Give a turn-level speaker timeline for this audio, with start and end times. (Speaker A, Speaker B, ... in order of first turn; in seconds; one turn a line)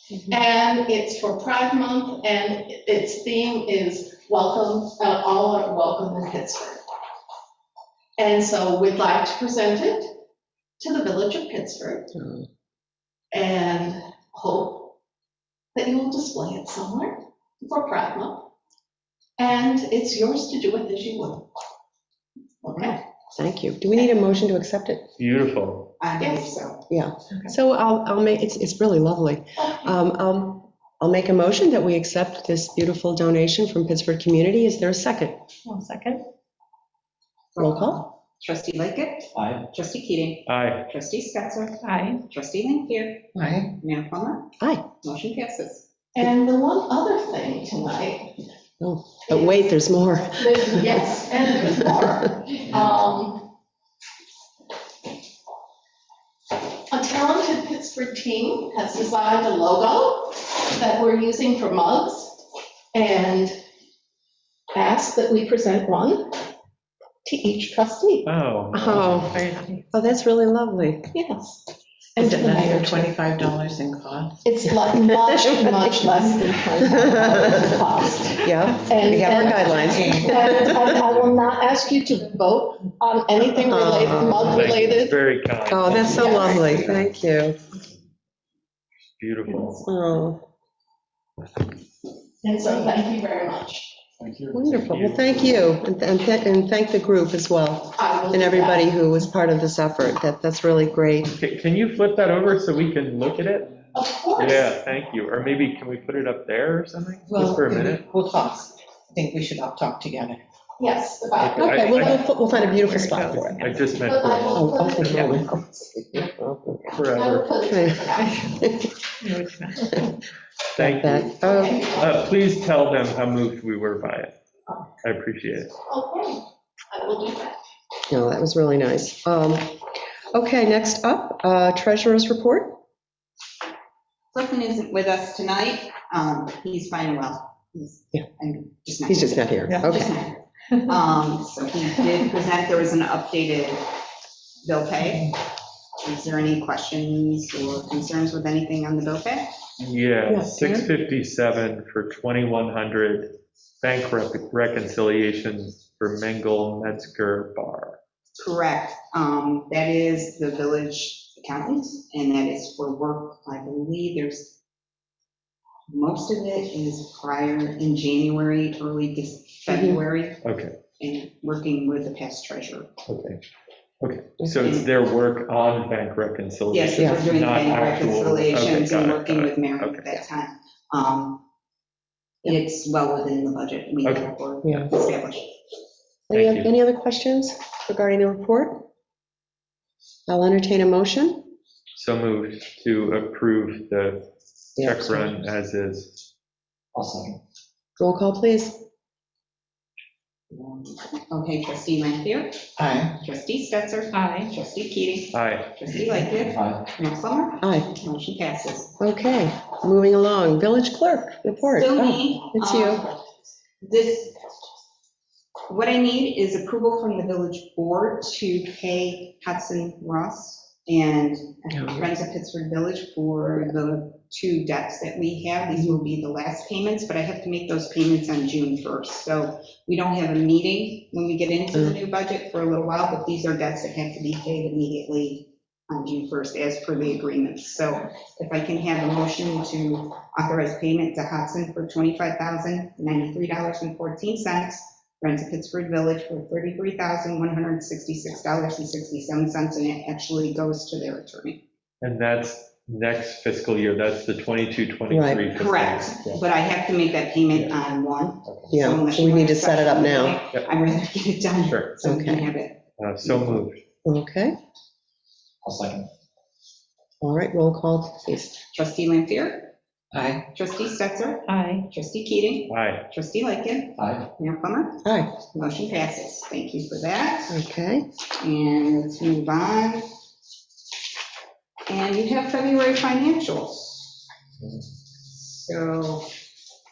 Speaker A: 0.3-6.8
Speaker A: 8.2-10.1
Speaker A: 10.8-12.1
Speaker B: 12.2-12.4
Speaker A: 13.3-14.9
Speaker A: 15.8-18.5
Speaker A: 19.4-21.5
Speaker A: 22.6-23.0
Speaker B: 23.3-25.1
Speaker C: 25.2-25.9
Speaker D: 26.0-26.8
Speaker A: 26.2-26.6
Speaker B: 26.9-35.4
Speaker E: 35.6-36.2
Speaker D: 37.5-44.5
Speaker B: 37.6-38.0
Speaker F: 39.3-39.6
Speaker C: 40.5-40.9
Speaker E: 41.8-42.2
Speaker G: 43.3-43.8
Speaker B: 44.6-44.9
Speaker D: 45.0-45.9
Speaker A: 46.1-48.4
Speaker B: 48.8-50.9
Speaker A: 49.3-49.8
Speaker A: 50.3-53.5
Speaker A: 56.9-63.5
Speaker A: 64.7-66.5
Speaker A: 67.2-68.3
Speaker C: 68.2-69.3
Speaker B: 68.7-71.1
Speaker E: 68.9-69.8
Speaker A: 71.1-73.1
Speaker B: 72.2-72.7
Speaker G: 72.2-74.4
Speaker A: 74.4-85.2
Speaker B: 75.5-77.8
Speaker G: 76.5-77.7
Speaker B: 78.4-80.9
Speaker G: 79.3-80.8
Speaker B: 83.7-84.6
Speaker C: 84.5-87.1
Speaker B: 85.7-87.6
Speaker A: 86.1-86.8
Speaker C: 89.2-89.8
Speaker B: 89.8-90.4
Speaker A: 92.4-94.0
Speaker C: 94.2-95.3
Speaker B: 94.5-101.3
Speaker A: 98.0-98.9
Speaker C: 101.3-103.8
Speaker A: 103.9-104.8
Speaker C: 104.4-108.0
Speaker G: 107.3-110.4
Speaker A: 110.8-112.2
Speaker C: 111.4-112.2
Speaker B: 111.6-113.8
Speaker E: 112.7-113.8
Speaker C: 113.2-115.4
Speaker A: 114.0-115.9
Speaker B: 114.5-117.0
Speaker C: 116.9-117.5
Speaker A: 117.1-118.5
Speaker B: 117.7-119.0
Speaker E: 119.2-120.2
Speaker C: 120.8-121.3
Speaker B: 120.8-121.9
Speaker A: 121.4-122.3
Speaker C: 121.9-124.3
Speaker C: 125.0-125.7
Speaker A: 125.9-127.6
Speaker B: 128.1-129.8
Speaker B: 130.3-132.8
Speaker D: 134.3-143.9
Speaker B: 139.1-140.2
Speaker D: 144.6-145.4
Speaker D: 146.0-149.6
Speaker C: 149.8-158.0
Speaker B: 150.3-150.9
Speaker D: 158.4-164.6
Speaker D: 165.9-170.4
Speaker B: 169.7-170.0
Speaker C: 170.4-170.8
Speaker D: 171.0-172.9
Speaker C: 173.1-173.4
Speaker C: 174.0-180.2
Speaker D: 174.6-174.9
Speaker D: 176.7-181.4
Speaker B: 177.0-177.2
Speaker D: 182.4-185.6
Speaker C: 184.0-184.3
Speaker B: 184.6-184.9
Speaker B: 186.3-188.8
Speaker C: 186.3-186.7
Speaker B: 190.3-191.5
Speaker C: 191.9-194.2
Speaker B: 194.8-195.3
Speaker C: 194.8-196.2
Speaker F: 196.9-197.4
Speaker B: 198.0-198.8
Speaker D: 200.5-208.9
Speaker G: 202.8-203.2
Speaker E: 204.1-204.5
Speaker C: 205.3-205.8
Speaker F: 205.9-206.9
Speaker B: 207.6-207.9
Speaker B: 209.0-213.1
Speaker D: 211.7-213.2
Speaker D: 213.8-214.4
Speaker D: 215.7-251.6
Speaker B: 221.7-222.1
Speaker C: 252.0-256.4
Speaker B: 255.1-255.4
Speaker D: 255.6-263.6
Speaker C: 257.5-257.8
Speaker C: 258.4-258.7
Speaker B: 258.7-260.4
Speaker C: 261.7-261.9
Speaker B: 262.0-262.5
Speaker C: 263.0-263.8
Speaker B: 264.1-264.6
Speaker F: 265.6-266.1
Speaker B: 267.2-268.6
Speaker D: 268.7-269.7
Speaker G: 270.1-270.4
Speaker D: 270.5-275.0
Speaker E: 271.5-271.9
Speaker C: 272.7-273.1
Speaker F: 273.9-274.3
Speaker B: 275.1-275.4
Speaker D: 275.5-277.6
Speaker B: 277.5-278.1
Speaker D: 278.4-280.1
Speaker D: 281.9-284.1
Speaker D: 285.5-286.3